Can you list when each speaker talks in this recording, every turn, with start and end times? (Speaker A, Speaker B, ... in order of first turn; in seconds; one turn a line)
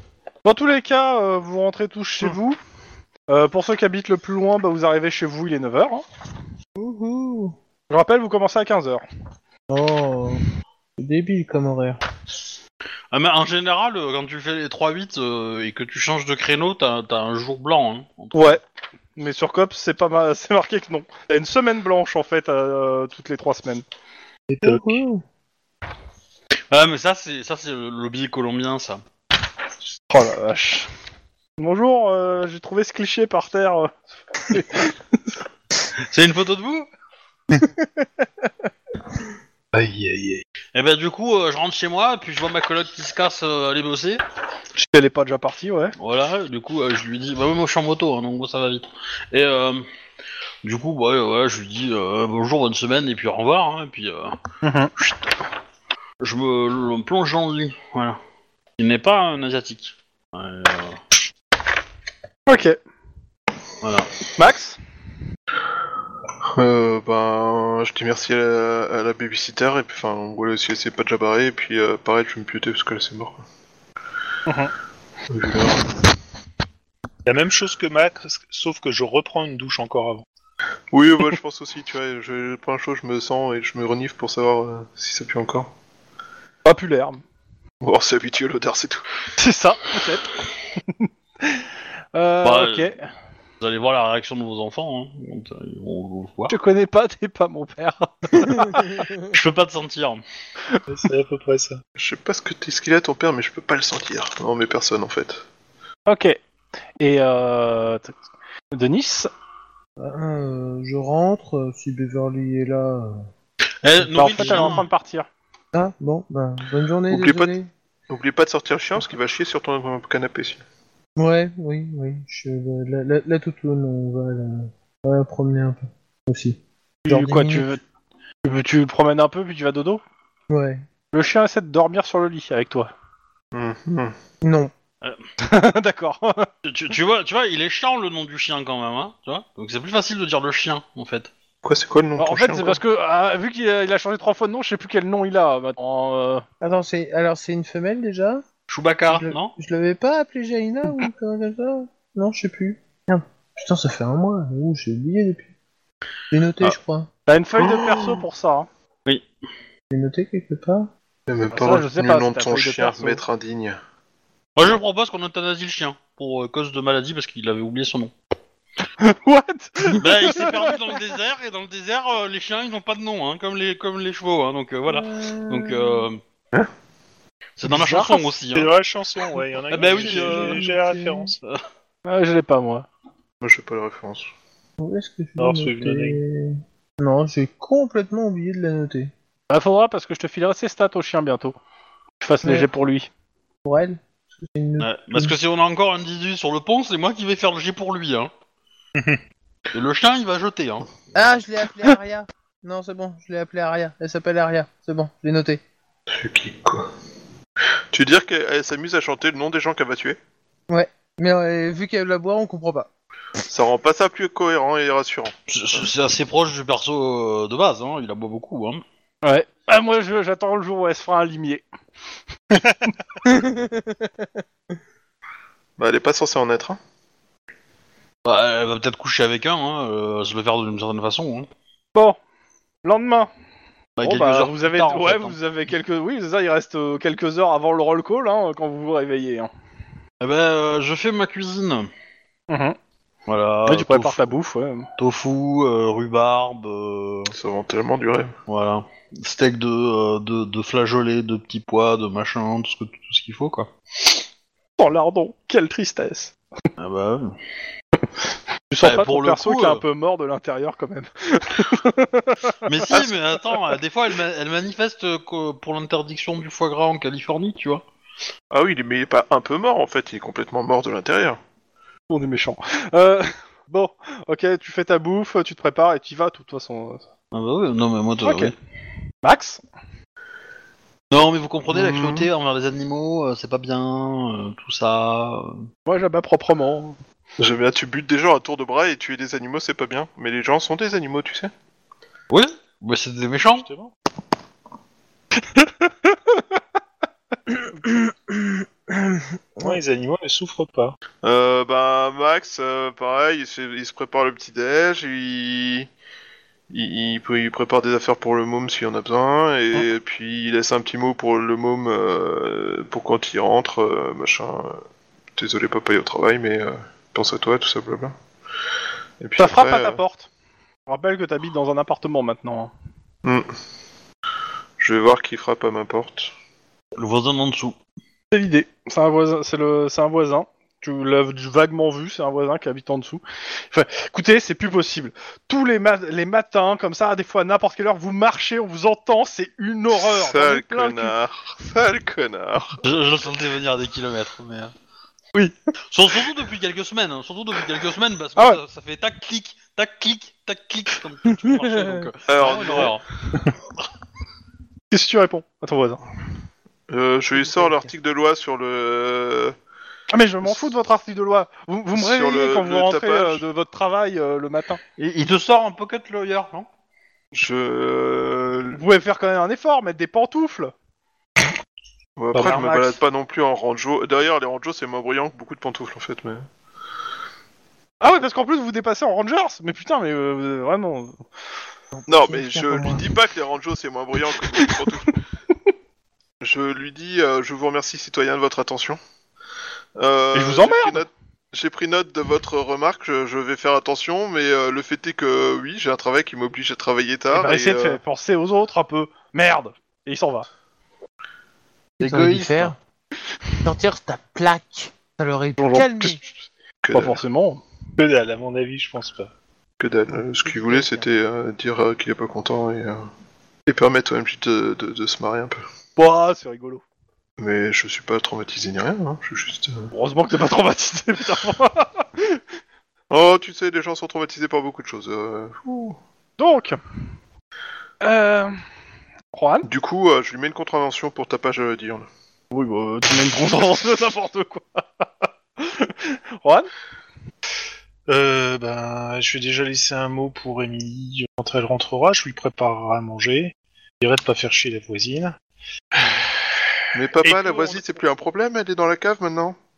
Speaker A: 0.4-2.6
Speaker A: 3.3-6.0
Speaker B: 6.8-7.5
Speaker A: 7.9-9.0
Speaker B: 9.7-10.4
Speaker B: 11.0-12.0
Speaker C: 13.1-18.6
Speaker A: 18.3-18.6
Speaker A: 19.1-23.8
Speaker B: 24.5-25.2
Speaker C: 26.7-29.0
Speaker A: 30.1-30.9
Speaker A: 31.6-34.9
Speaker C: 36.1-36.9
Speaker D: 39.7-40.4
Speaker C: 40.7-44.2
Speaker A: 44.8-45.9
Speaker C: 46.0-49.9
Speaker C: 50.6-54.4
Speaker A: 54.6-54.9
Speaker C: 56.2-58.2
Speaker C: 58.8-61.0
Speaker A: 62.5-62.8
Speaker C: 63.8-64.1
Speaker A: 64.3-64.8
Speaker E: 66.5-73.4
Speaker A: 74.5-74.7
Speaker E: 75.3-75.9
Speaker D: 77.2-80.2
Speaker E: 80.9-85.7
Speaker A: 86.6-87.2
Speaker E: 87.8-89.0
Speaker A: 89.4-90.3
Speaker A: 90.9-93.0
Speaker C: 92.4-92.9
Speaker C: 93.6-96.5
Speaker A: 96.5-99.0
Speaker C: 99.2-100.2
Speaker D: 100.9-101.8
Speaker E: 102.0-105.4
Speaker A: 106.1-106.4
Speaker A: 107.0-108.2
Speaker A: 108.7-109.3
Speaker B: 110.0-113.3
Speaker C: 113.8-114.9
Speaker A: 114.1-115.3
Speaker B: 114.4-114.7
Speaker B: 115.7-117.7
Speaker E: 117.1-117.5
Speaker E: 118.1-120.6
Speaker B: 121.2-127.7
Speaker A: 127.0-127.8
Speaker A: 128.4-130.0
Speaker B: 130.5-130.8
Speaker A: 131.1-132.9
Speaker E: 133.5-134.1
Speaker B: 134.4-134.7
Speaker A: 135.4-136.5
Speaker C: 136.6-141.3
Speaker E: 141.6-142.8
Speaker A: 142.2-146.4
Speaker B: 146.6-148.4
Speaker C: 148.7-149.5
Speaker B: 149.1-155.5
Speaker B: 156.3-157.1
Speaker A: 157.3-158.7
Speaker B: 159.9-160.9
Speaker E: 161.3-163.8
Speaker A: 161.5-163.2
Speaker C: 164.6-168.1
Speaker A: 169.0-170.8
Speaker C: 169.9-176.2
Speaker B: 174.9-176.1
Speaker C: 177.6-178.7
Speaker A: 177.7-178.2
Speaker D: 178.5-181.4
Speaker C: 179.7-180.7
Speaker B: 179.7-181.3
Speaker A: 182.0-182.8
Speaker E: 183.4-184.3
Speaker B: 184.8-189.1
Speaker D: 185.4-186.2
Speaker A: 189.5-191.6
Speaker A: 192.2-193.1
Speaker B: 193.6-195.3
Speaker C: 194.8-198.3
Speaker D: 198.9-199.2
Speaker C: 199.7-201.1
Speaker B: 201.1-205.6
Speaker E: 206.1-206.9
Speaker E: 207.9-210.2
Speaker B: 210.7-212.9
Speaker E: 213.5-215.3
Speaker C: 215.5-218.8
Speaker A: 219.2-221.6
Speaker B: 223.2-223.8
Speaker E: 225.8-226.8
Speaker C: 228.2-231.5
Speaker A: 232.8-233.3
Speaker C: 234.0-235.4
Speaker A: 234.0-239.5
Speaker C: 240.2-241.9
Speaker A: 242.5-242.8
Speaker C: 243.3-244.3
Speaker A: 243.7-244.9
Speaker C: 245.0-247.3
Speaker E: 247.3-248.3
Speaker C: 248.5-254.2
Speaker A: 254.8-256.3
Speaker C: 256.8-257.4
Speaker A: 258.7-263.1
Speaker C: 258.8-259.8
Speaker C: 262.6-267.8
Speaker E: 268.5-271.4
Speaker A: 272.1-277.0
Speaker C: 277.3-278.5
Speaker A: 278.2-278.5
Speaker A: 279.2-279.6
Speaker C: 281.1-285.7
Speaker E: 281.7-282.3
Speaker A: 285.9-287.0
Speaker E: 287.4-291.5
Speaker C: 292.3-293.7
Speaker D: 293.5-293.9
Speaker A: 295.6-295.9
Speaker B: 297.8-299.8
Speaker D: 299.6-301.0
Speaker E: 301.2-305.9
Speaker E: 306.7-314.8
Speaker E: 315.4-318.1
Speaker E: 319.2-320.0
Speaker A: 319.4-320.3
Speaker A: 320.9-322.7
Speaker E: 323.2-323.5
Speaker E: 324.8-326.3
Speaker C: 326.9-327.8
Speaker A: 328.3-341.1
Speaker E: 339.9-342.8
Speaker C: 342.8-344.7
Speaker C: 345.9-353.0
Speaker B: 351.6-352.1
Speaker E: 352.3-352.9
Speaker A: 354.9-356.0
Speaker E: 356.9-359.6
Speaker A: 360.1-364.8
Speaker E: 361.9-363.4
Speaker C: 365.0-366.7
Speaker E: 367.3-368.8
Speaker A: 368.7-370.7
Speaker E: 372.2-376.4
Speaker A: 372.3-372.9
Speaker D: 372.4-372.7
Speaker A: 378.0-381.2
Speaker B: 381.9-383.1
Speaker E: 382.1-385.1
Speaker E: 386.4-389.0
Speaker E: 390.0-398.0
Speaker A: 390.3-391.0
Speaker A: 397.3-400.4
Speaker B: 402.0-402.8
Speaker C: 402.0-402.7
Speaker B: 403.6-406.2
Speaker A: 405.6-406.2
Speaker E: 406.8-407.2
Speaker A: 406.9-407.6
Speaker D: 408.0-409.3
Speaker E: 409.8-413.1
Speaker B: 410.6-411.0
Speaker E: 413.7-415.6
Speaker A: 415.9-416.8
Speaker E: 417.4-419.9
Speaker A: 419.9-422.4
Speaker E: 423.1-426.0
Speaker A: 426.4-426.8
Speaker A: 428.0-428.6
Speaker A: 429.3-429.7
Speaker E: 429.6-432.1
Speaker A: 432.5-435.1
Speaker A: 435.6-436.7
Speaker D: 438.1-445.4
Speaker E: 446.9-449.6
Speaker D: 447.2-447.8